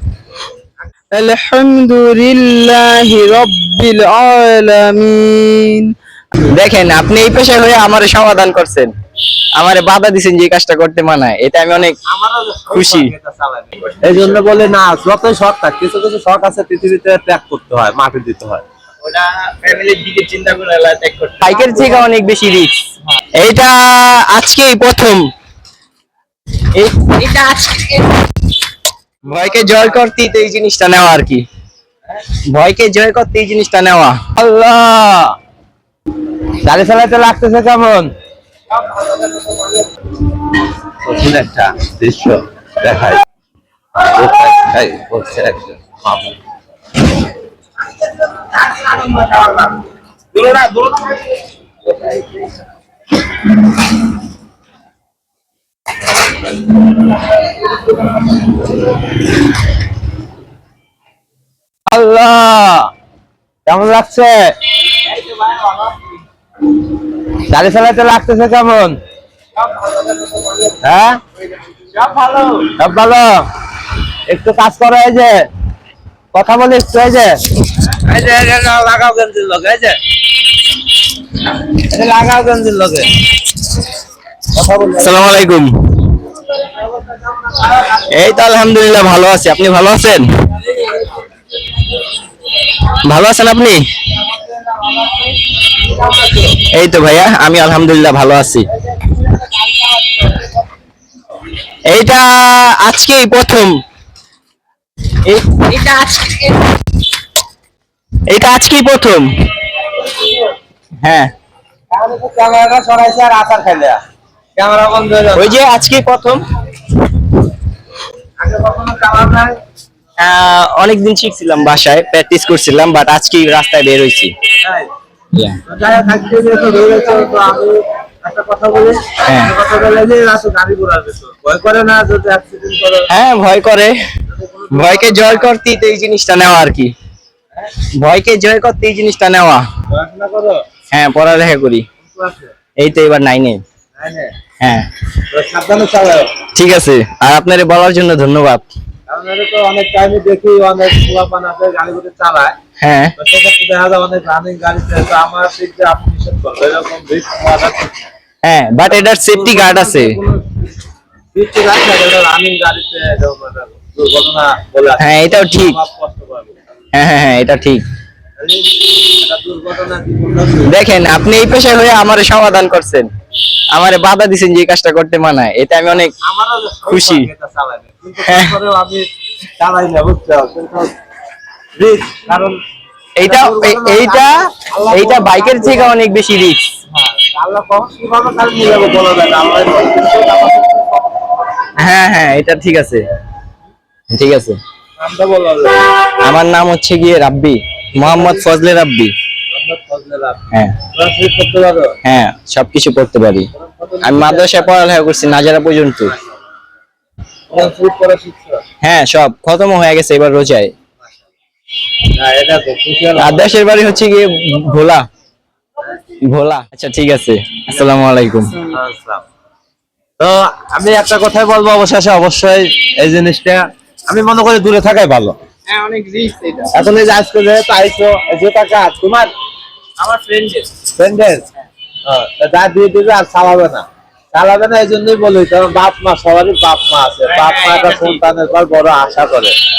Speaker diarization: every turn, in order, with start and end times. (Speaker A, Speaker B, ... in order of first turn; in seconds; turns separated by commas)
Speaker A: 1.1-5.9, Speaker B: 6.5-8.9, Speaker B: 9.6-12.0, Speaker C: 12.1-18.6, Speaker B: 12.7-13.1, Speaker B: 14.1-14.4, Speaker B: 19.0-22.8, Speaker C: 21.6-22.0, Speaker B: 23.4-25.2, Speaker B: 26.7-28.1, Speaker B: 29.2-31.4, Speaker B: 32.5-34.2, Speaker C: 34.4-35.3, Speaker C: 36.6-38.1, Speaker C: 39.5-39.8, Speaker C: 41.0-43.2, Speaker C: 44.0-46.4, Speaker C: 48.7-49.6, Speaker C: 50.4-51.1, Speaker C: 61.9-62.9, Speaker C: 63.7-64.5, Speaker B: 65.2-65.9, Speaker C: 67.3-69.0, Speaker C: 70.6-71.2, Speaker B: 71.9-72.6, Speaker C: 72.6-73.4, Speaker C: 74.3-75.4, Speaker C: 76.3-80.0, Speaker C: 81.6-83.1, Speaker C: 84.5-85.3, Speaker B: 85.0-85.7, Speaker C: 86.7-87.8, Speaker B: 87.9-90.3, Speaker B: 93.0-93.8, Speaker B: 96.2-98.7, Speaker B: 101.9-103.8, Speaker B: 105.2-106.7, Speaker B: 108.3-109.3, Speaker B: 111.0-111.3, Speaker C: 111.9-114.0, Speaker C: 114.6-115.6, Speaker B: 115.3-116.4, Speaker C: 118.4-119.6, Speaker B: 120.2-124.3, Speaker C: 124.6-124.9, Speaker B: 125.3-125.6, Speaker C: 125.7-133.1, Speaker B: 129.2-129.6, Speaker B: 133.1-133.9, Speaker C: 134.3-135.6, Speaker B: 134.7-136.9, Speaker B: 138.0-139.6, Speaker C: 139.9-140.6, Speaker B: 140.9-141.8, Speaker C: 142.0-142.5, Speaker B: 142.8-143.6, Speaker C: 144.0-144.3, Speaker B: 144.6-144.9, Speaker C: 145.3-146.3, Speaker B: 146.5-148.6, Speaker C: 149.1-152.6, Speaker B: 152.8-153.1, Speaker C: 153.2-158.1, Speaker B: 158.4-160.2, Speaker C: 158.9-160.6, Speaker C: 161.3-166.6, Speaker B: 165.0-165.8, Speaker B: 166.9-167.8, Speaker C: 168.4-170.8, Speaker B: 170.7-173.1, Speaker B: 173.7-176.1, Speaker C: 175.9-179.1, Speaker B: 176.9-177.3, Speaker B: 178.3-178.6, Speaker C: 179.6-180.9, Speaker C: 181.8-182.6, Speaker B: 183.2-186.7, Speaker C: 183.2-185.9, Speaker C: 186.9-191.4, Speaker B: 191.8-193.0, Speaker B: 194.1-194.6, Speaker C: 195.0-195.8, Speaker B: 196.2-199.1, Speaker C: 198.0-198.5, Speaker C: 199.5-202.0, Speaker B: 200.5-200.8, Speaker B: 202.0-203.5, Speaker C: 203.5-204.9, Speaker B: 204.0-206.1, Speaker C: 207.5-208.6, Speaker B: 208.8-210.7, Speaker C: 212.2-213.6, Speaker B: 213.2-215.0, Speaker B: 216.2-218.6, Speaker C: 218.6-219.2, Speaker C: 220.2-225.3, Speaker B: 225.7-226.8, Speaker C: 226.7-229.3, Speaker B: 230.0-230.7, Speaker C: 230.9-231.5, Speaker C: 232.1-239.6, Speaker B: 237.3-238.2